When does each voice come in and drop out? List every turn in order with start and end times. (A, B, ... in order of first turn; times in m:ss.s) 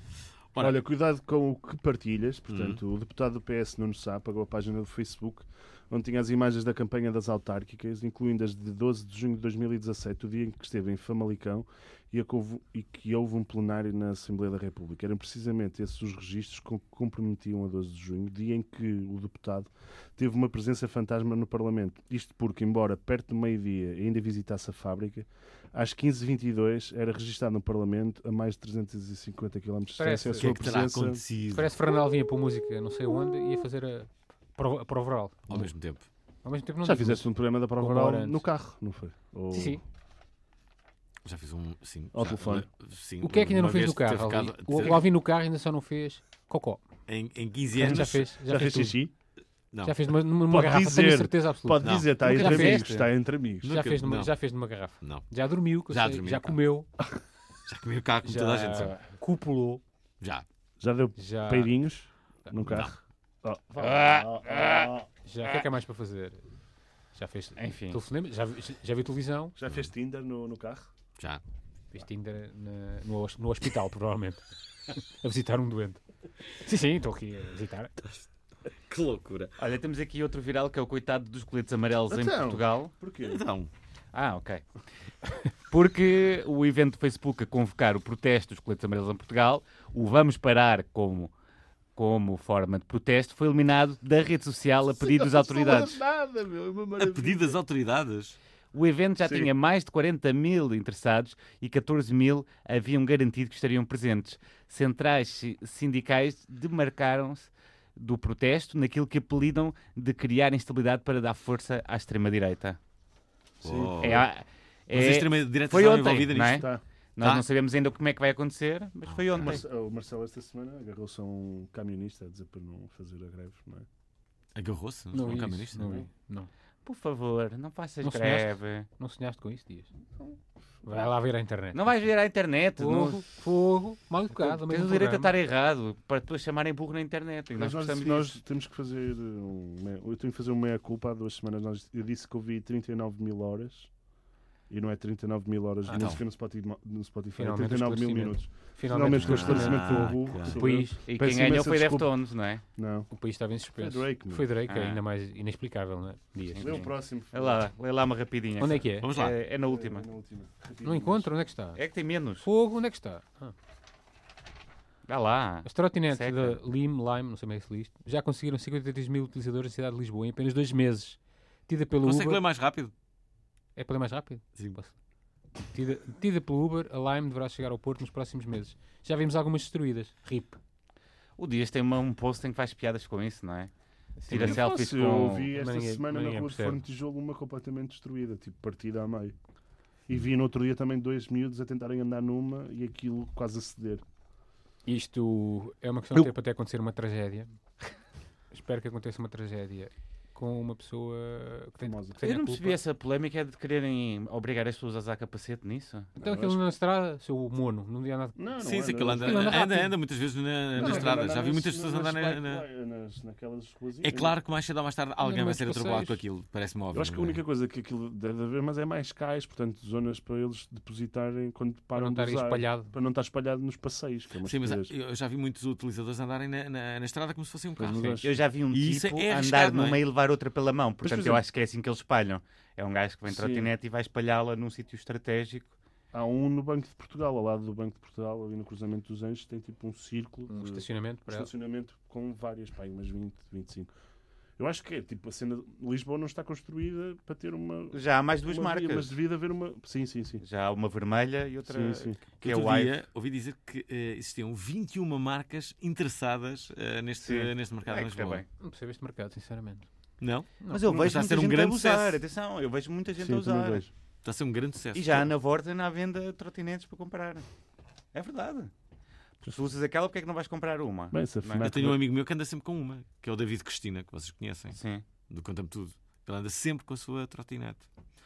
0:00.6-0:31.2 A
0:02.5-0:02.8 B
0:30.0-0:30.6 C
0:30.4-0:31.7 B
0:31.5-0:35.6 C
0:35.5-0:36.1 B
0:36.4-0:38.4 C
0:36.8-0:39.8 A
0:39.5-0:39.8 C
0:41.2-0:45.0 B
0:42.1-0:42.6 A
0:43.2-0:46.8 C
0:47.1-0:48.2 B
0:47.7-0:49.0 C
0:47.8-0:49.1 A
0:49.7-0:50.0 B
0:49.8-0:53.0 C
0:50.5-0:53.7 A
0:51.8-0:52.1 B
0:52.2-0:53.0 D
0:53.6-0:54.3 B
0:53.7-0:56.9 C
0:55.0-0:55.3 B
0:55.9-0:56.6 B
0:57.7-0:58.9 B
0:58.2-0:59.8 C
1:00.8-1:05.1 A
1:01.2-1:01.8 C
1:02.4-1:02.9 C
1:02.7-1:02.9 B
1:03.8-1:04.9 D
1:05.2-1:06.4 C
1:07.1-1:09.6 C
1:07.6-1:08.0 D
1:09.6-1:10.9 A
1:11.9-1:16.0 C
1:16.5-1:18.0 C
1:18.8-1:19.5 B
1:19.6-1:22.9 D
1:22.1-1:23.4 A
1:23.2-1:23.7 B
1:24.1-1:24.6 D
1:25.7-1:31.3 D
1:32.0-1:36.0 D
1:35.0-1:37.6 A
1:37.0-1:38.4 B
1:38.7-1:52.8 D
1:39.2-1:39.5 A
1:53.6-1:54.3 A
1:53.6-1:54.2 B
1:54.0-1:59.6 D
1:54.9-1:57.4 B
1:56.5-1:56.8 A
1:59.1-1:59.5 B
1:59.3-2:03.9 A
2:04.6-2:05.9 B
2:05.1-2:06.5 C
2:05.8-2:06.1 A
2:06.8-2:08.9 D
2:08.0-2:09.9 C
2:10.9-2:11.9 C
2:11.7-2:13.3 D
2:12.8-2:15.3 C
2:14.3-2:18.4 D
2:17.5-2:23.9 A
2:24.7-2:32.1 A
2:25.8-2:26.1 C
2:25.9-2:26.2 B
2:27.4-2:31.0 C
2:29.1-2:30.6 B
2:31.1-2:32.6 D
2:32.7-2:33.1 A
2:33.1-2:36.9 C
2:33.8-2:34.5 A
2:34.7-2:35.0 D
2:36.5-2:37.6 A
2:36.6-2:40.1 D
2:38.6-2:39.1 C
2:39.0-2:39.4 B
2:39.6-2:41.3 A
2:40.8-2:41.8 C
2:41.7-2:42.5 D
2:42.4-2:43.5 C
2:45.1-2:46.6 D
2:45.6-2:52.4 C
2:52.0-2:52.9 B
2:53.8-2:54.9 C
2:55.7-3:00.6 C
3:01.4-3:03.7 D
3:04.2-3:04.6 C
3:04.2-3:05.5 D
3:04.3-3:09.4 A
3:05.5-3:06.8 C
3:10.1-3:14.0 A
3:14.9-3:17.6 C
3:18.5-3:22.8 C
3:21.8-3:22.3 A
3:22.2-3:26.1 D
3:26.2-3:30.0 C
3:26.2-3:26.6 A
3:28.4-3:29.6 A
3:28.6-3:32.6 B
3:30.8-3:34.3 A
3:30.8-3:31.3 C
3:34.0-3:37.4 B
3:35.2-3:36.2 C
3:36.9-3:44.9 A
3:41.9-3:42.9 C
3:44.4-3:48.1 B
3:47.8-3:48.4 A
3:47.9-3:48.2 C
3:48.2-3:55.7 D
3:48.7-3:50.0 B
3:51.0-3:51.4 A
3:53.3-3:53.7 A
3:56.1-4:03.9 A
4:00.5-4:01.5 C
4:04.6-4:10.4 A
4:07.9-4:09.1 D
4:10.4-4:12.9 D
4:11.6-4:12.2 A
4:12.4-4:18.4 B
4:17.2-4:18.5 D
4:18.6-4:19.9 C
4:20.2-4:22.2 B
4:20.7-4:23.9 D
4:23.2-4:23.9 A
4:24.2-4:25.3 B
4:24.9-4:27.4 D
4:28.1-4:28.7 D
4:29.4-4:31.7 D
4:31.1-4:32.0 A
4:31.6-4:34.8 B
4:34.7-4:35.0 D
4:35.3-4:37.9 B